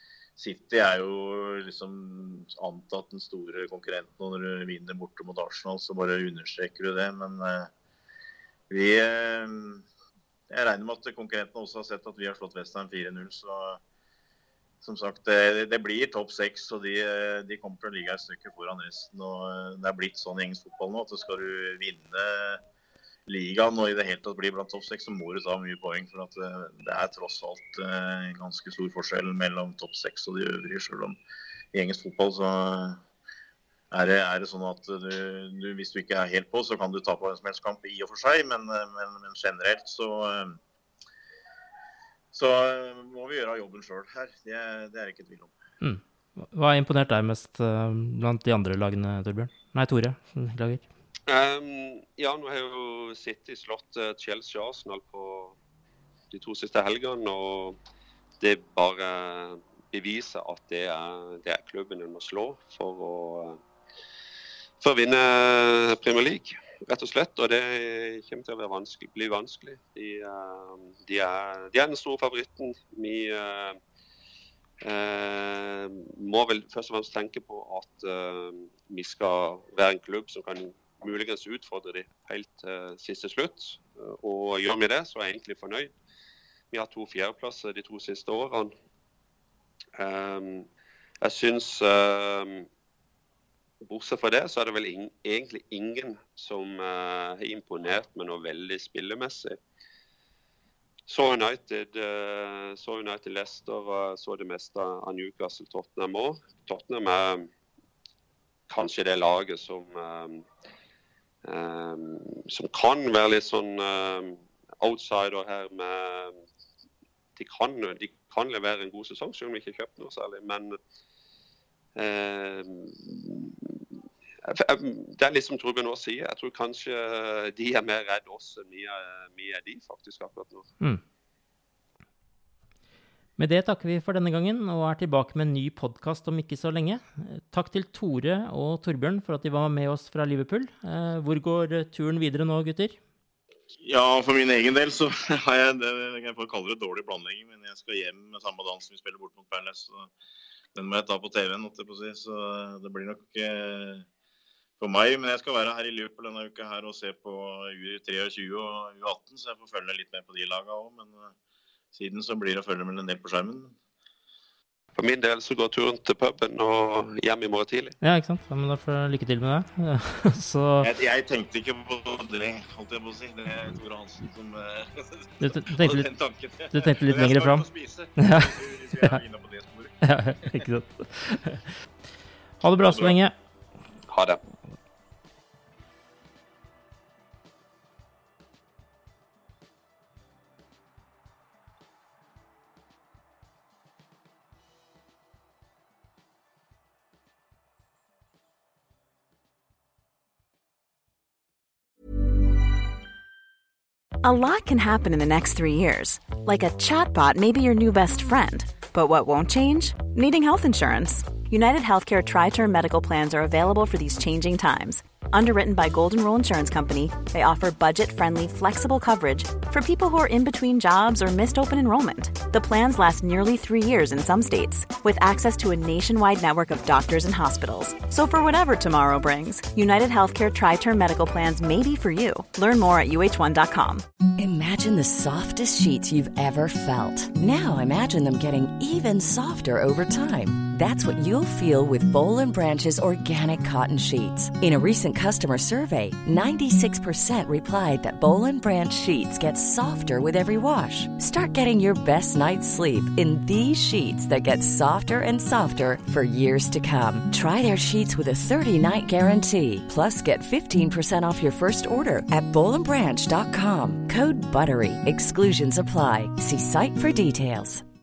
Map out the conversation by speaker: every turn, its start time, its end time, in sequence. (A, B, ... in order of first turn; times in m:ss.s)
0:00.4-0:07.7 A
0:08.7-0:09.8 A
0:10.5-0:13.8 A
0:14.8-0:22.6 A
0:23.3-0:31.2 A
0:31.7-0:33.0 A
0:33.9-0:40.6 A
0:42.3-0:45.5 A
0:45.8-0:50.8 B
0:51.3-0:55.6 C
0:56.3-0:57.8 C
0:58.4-1:03.6 C
1:04.8-1:13.8 C
1:14.8-1:25.9 C
1:26.7-1:28.7 C
1:30.0-1:30.7 C
1:31.2-1:32.7 C
1:33.8-1:39.6 C
1:41.1-1:47.5 C
1:48.7-1:50.4 C
1:51.4-1:56.4 C
1:57.4-2:00.8 C
2:02.0-2:03.8 C
2:04.4-2:10.7 C
2:13.4-2:23.0 B
2:23.8-2:30.1 A
2:30.7-2:34.1 A
2:34.8-2:41.3 A
2:41.9-2:43.8 A
2:45.0-2:48.0 C
2:48.0-2:50.9 B
2:50.8-3:00.0 A
2:55.4-2:56.1 B
2:56.7-2:58.5 B
3:00.0-3:01.7 B
3:02.6-3:03.3 B
3:04.1-3:04.4 C
3:24.2-3:54.0 D
3:54.4-4:27.8 E